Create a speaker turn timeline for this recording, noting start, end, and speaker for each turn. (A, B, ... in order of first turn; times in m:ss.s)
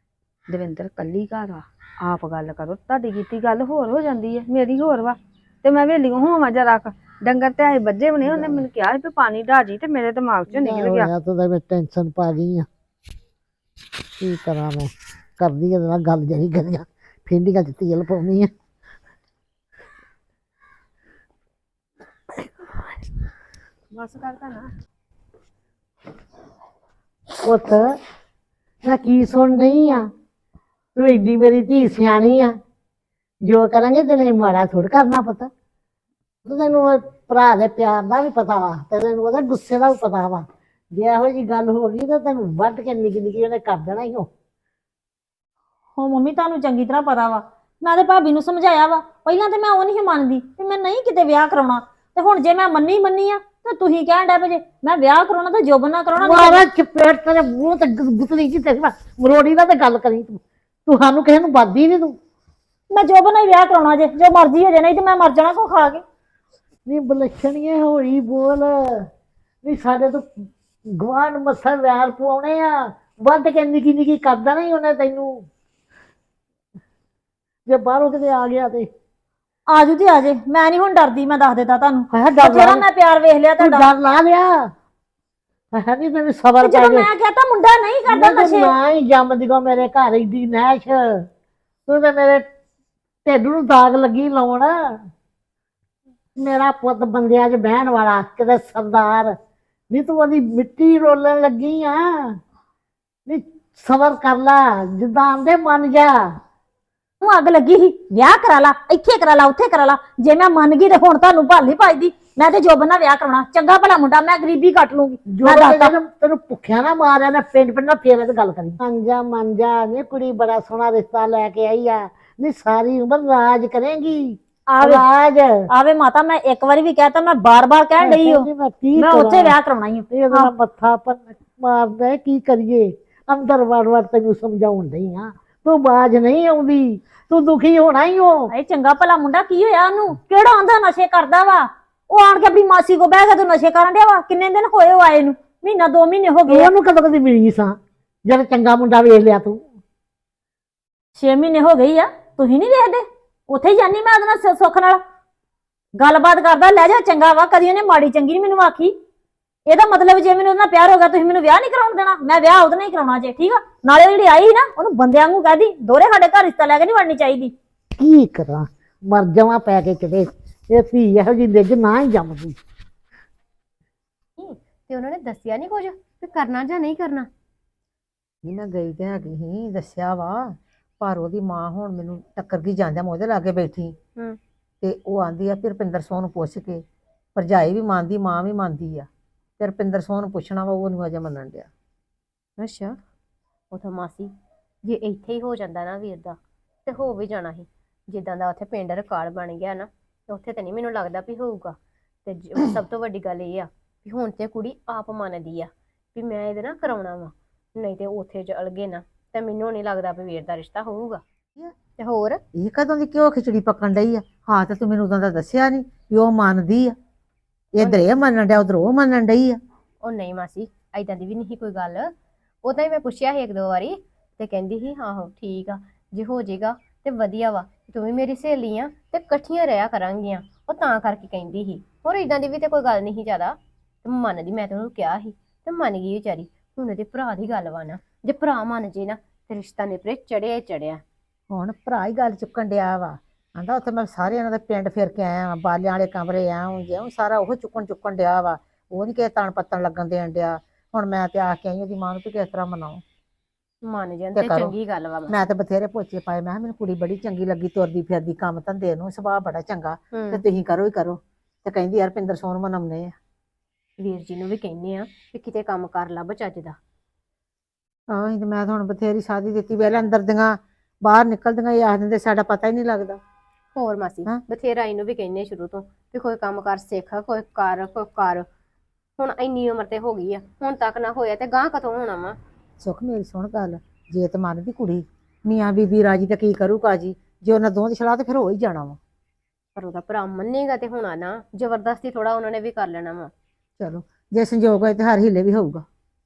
0:00.5-0:11.1 A
0:08.2-0:08.6 B
0:10.5-0:12.7 B
0:14.2-0:18.5 B
0:23.9-0:24.7 A
0:27.4-0:27.9 B
0:28.8-0:30.0 B
0:30.9-0:32.5 B
0:33.4-0:35.5 B
0:36.4-0:44.3 B
0:46.0-0:56.6 C
0:56.2-1:02.1 B
1:02.9-1:06.0 C
1:06.8-1:09.0 B
1:09.6-1:15.4 B
1:17.6-1:18.9 B
1:19.7-1:23.9 C
1:22.1-1:22.8 B
1:23.6-1:24.7 B
1:25.7-1:27.1 B
1:26.6-1:28.7 C
1:28.1-1:31.2 B
1:31.9-1:32.4 B
1:33.2-1:34.7 B
1:36.4-1:39.3 B
1:39.9-1:42.3 B
1:43.3-1:46.2 B
1:47.2-1:55.9 C
1:55.3-2:05.6 B
2:04.7-2:05.0 C
2:05.7-2:10.5 C
2:08.0-2:09.6 B
2:10.1-2:18.5 B
2:18.5-2:26.7 C
2:26.5-2:27.7 B
2:28.3-2:29.6 B
2:31.1-2:35.0 C
2:36.0-2:38.9 C
2:39.7-2:47.5 C
2:48.0-2:52.6 B
2:54.4-2:57.3 D
2:58.4-3:04.0 E
3:04.8-3:06.8 E
3:07.4-3:09.1 E
3:09.6-3:11.7 E
3:12.6-3:13.0 D
3:13.7-3:14.3 D
3:14.8-3:31.2 D
3:31.9-3:32.4 D
3:32.5-3:36.9 E
3:37.7-3:39.6 E
3:37.8-3:38.1 D
3:40.0-3:42.1 D
3:42.6-4:01.0 D
4:01.5-4:13.0 E
4:13.8-4:15.5 D
4:14.4-4:14.7 E
4:15.3-4:23.1 E
4:20.1-4:20.4 D
4:24.0-4:26.8 D
4:28.1-4:33.2 E
4:33.7-4:38.4 D
4:39.2-4:42.4 D
4:42.8-4:49.0 E
4:49.7-4:53.3 D
4:53.8-4:55.8 E